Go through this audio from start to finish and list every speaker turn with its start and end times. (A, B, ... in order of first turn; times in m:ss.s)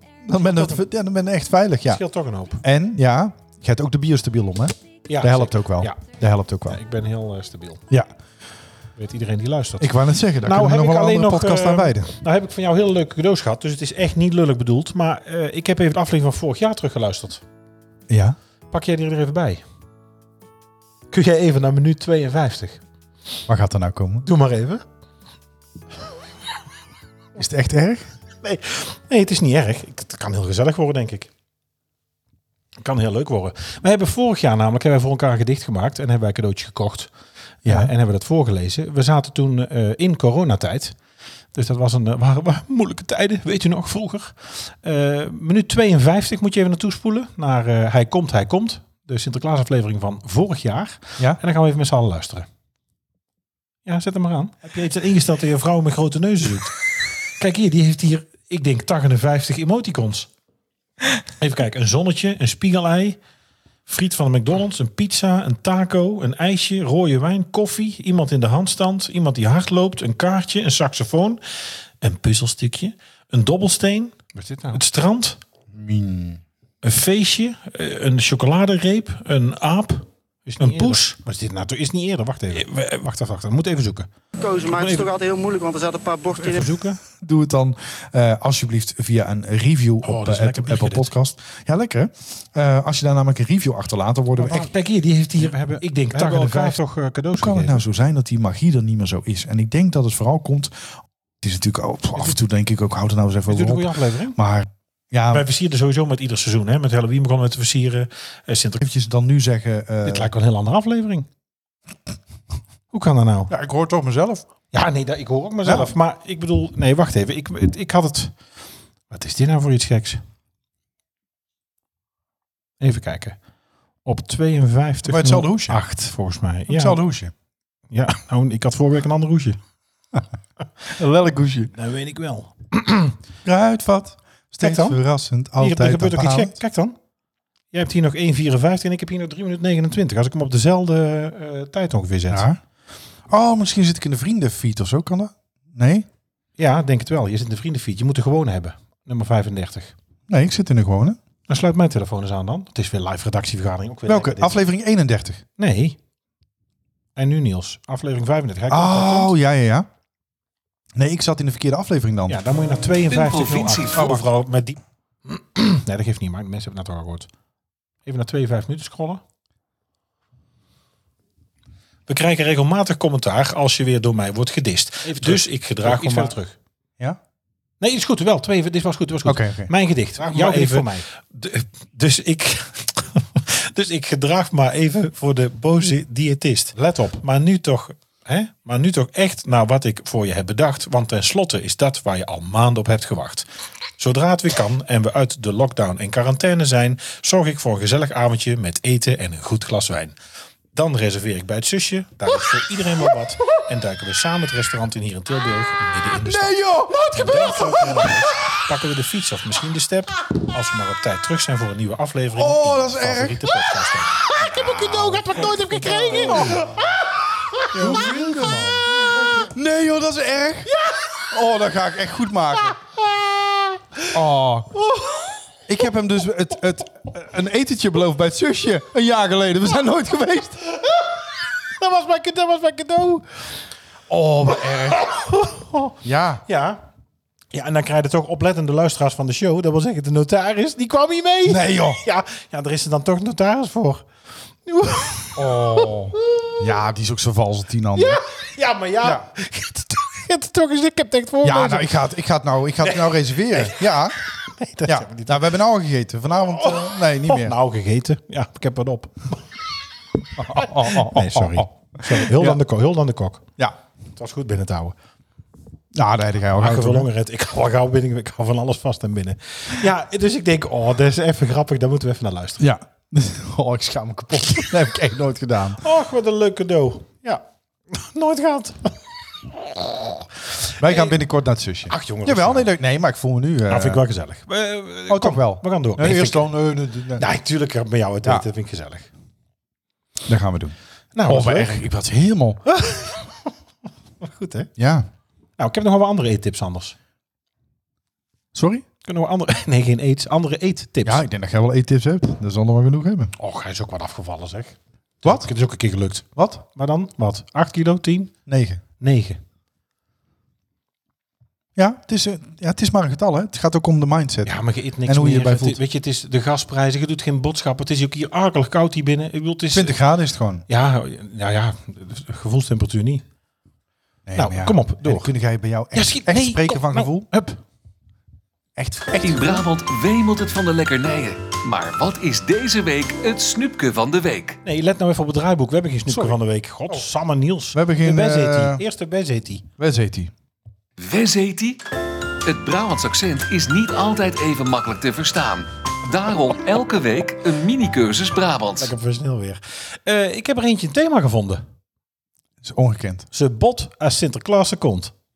0:00.2-0:02.0 A
0:00.3-0:00.8 B
0:01.9-0:02.6 B
0:02.6-0:06.8 A
0:05.1-0:06.0 B
0:06.7-0:07.8 B
0:09.0-0:17.4 B
0:09.8-0:12.1 A
0:18.1-0:18.4 A
0:18.7-0:19.6 B
0:21.1-0:22.8 B
0:23.5-0:24.3 A
0:24.2-0:24.8 B
0:27.4-0:28.1 A
0:28.4-0:31.3 B
0:32.8-0:37.1 B
0:37.6-0:37.9 A
0:37.6-0:41.0 B
0:41.5-0:52.5 B
0:53.8-1:00.3 B
1:01.4-1:03.2 B
1:03.8-1:11.4 B
1:12.0-1:15.4 B
1:15.7-1:16.4 A
1:16.8-1:24.1 B
1:20.6-1:21.0 A
1:24.4-1:26.7 C
1:24.7-1:25.1 B
1:26.4-1:27.0 B
1:27.2-1:34.7 A
1:30.0-1:31.1 B
1:34.4-1:37.8 B
1:35.4-1:36.8 A
1:37.4-1:45.5 A
1:43.5-1:44.4 B
1:45.3-1:48.8 B
1:48.8-1:50.3 A
1:50.0-1:51.3 B
1:52.9-1:53.5 B
1:53.5-1:54.4 A
1:54.7-1:58.3 B
1:55.6-1:55.9 A
1:59.1-2:00.2 B
2:02.8-2:03.4 B
2:04.0-2:07.0 B
2:05.0-2:05.8 A
2:06.7-2:07.3 A
2:07.9-2:09.6 B
2:10.9-2:11.7 A
2:11.7-2:13.1 B
2:13.4-2:16.5 A
2:14.6-2:15.0 B
2:15.6-2:17.0 B
2:17.7-2:22.5 B
2:22.3-2:22.6 A
2:23.3-2:26.0 A
2:26.6-2:29.9 B
2:30.3-2:31.2 A
2:31.5-2:34.6 B
2:34.1-2:35.4 A
2:35.6-2:36.0 B
2:37.2-2:39.3 B
2:38.7-2:39.9 A
2:41.0-2:42.4 A
2:42.3-2:47.3 B
2:43.1-2:44.2 D
2:43.9-2:44.2 A
2:48.0-2:49.2 B
2:52.1-2:56.6 B
2:55.1-2:56.3 A
2:57.8-3:13.5 B
2:59.2-3:01.0 A
3:14.0-3:20.2 B
3:20.7-3:36.8 B
3:26.2-3:28.3 A
3:32.3-3:36.8 A
3:37.7-3:39.4 B
3:37.7-3:42.8 A
3:43.0-3:44.0 B
3:44.1-3:44.7 A
3:44.8-3:45.3 B
3:45.7-3:50.6 A
3:50.8-3:53.4 B
3:54.1-3:55.1 A
3:54.8-3:56.8 B
3:56.0-3:56.4 A
3:57.5-4:04.1 B
4:01.4-4:02.0 A
4:04.6-4:06.6 B
4:05.4-4:08.2 A
4:07.9-4:12.0 B
4:11.4-4:14.2 A
4:12.8-4:15.5 B
4:14.8-4:17.6 A
4:16.5-4:19.5 B
4:20.4-4:22.6 A
4:20.4-4:23.4 B
4:24.2-4:25.0 B
4:25.9-4:27.1 A
4:26.6-4:32.6 B
4:32.6-4:35.8 A
4:35.8-4:39.0 B
4:39.5-4:40.1 B
4:40.7-4:41.2 B
4:40.8-4:44.0 A
4:41.9-4:42.7 B
4:43.7-4:46.5 B
4:45.1-4:47.3 A
4:47.2-4:49.1 B
4:50.3-4:52.6 A
4:51.1-4:51.8 B
4:52.6-4:53.5 B
4:54.2-4:54.7 B
4:54.8-4:55.1 A
4:55.6-4:57.0 B
4:58.5-4:58.8 A
4:59.0-5:01.2 B
5:01.0-5:03.3 A
5:03.4-5:08.3 B
5:06.4-5:06.6 A
5:08.5-5:08.8 A
5:09.0-5:09.4 B
5:11.8-5:15.8 A
5:14.4-5:20.0 B
5:19.7-5:20.6 A
5:20.7-5:23.2 B
5:24.3-5:27.3 A
5:24.3-5:25.3 B
5:25.9-5:27.6 B
5:28.8-5:29.6 A
5:29.1-5:34.6 D
5:34.6-5:39.6 B
5:36.1-5:36.4 A
5:37.7-5:38.8 A
5:39.8-5:40.3 A
5:41.0-5:41.8 D
5:42.4-5:48.9 D
5:48.8-5:51.6 B
5:52.6-5:53.3 A
5:53.3-5:55.1 B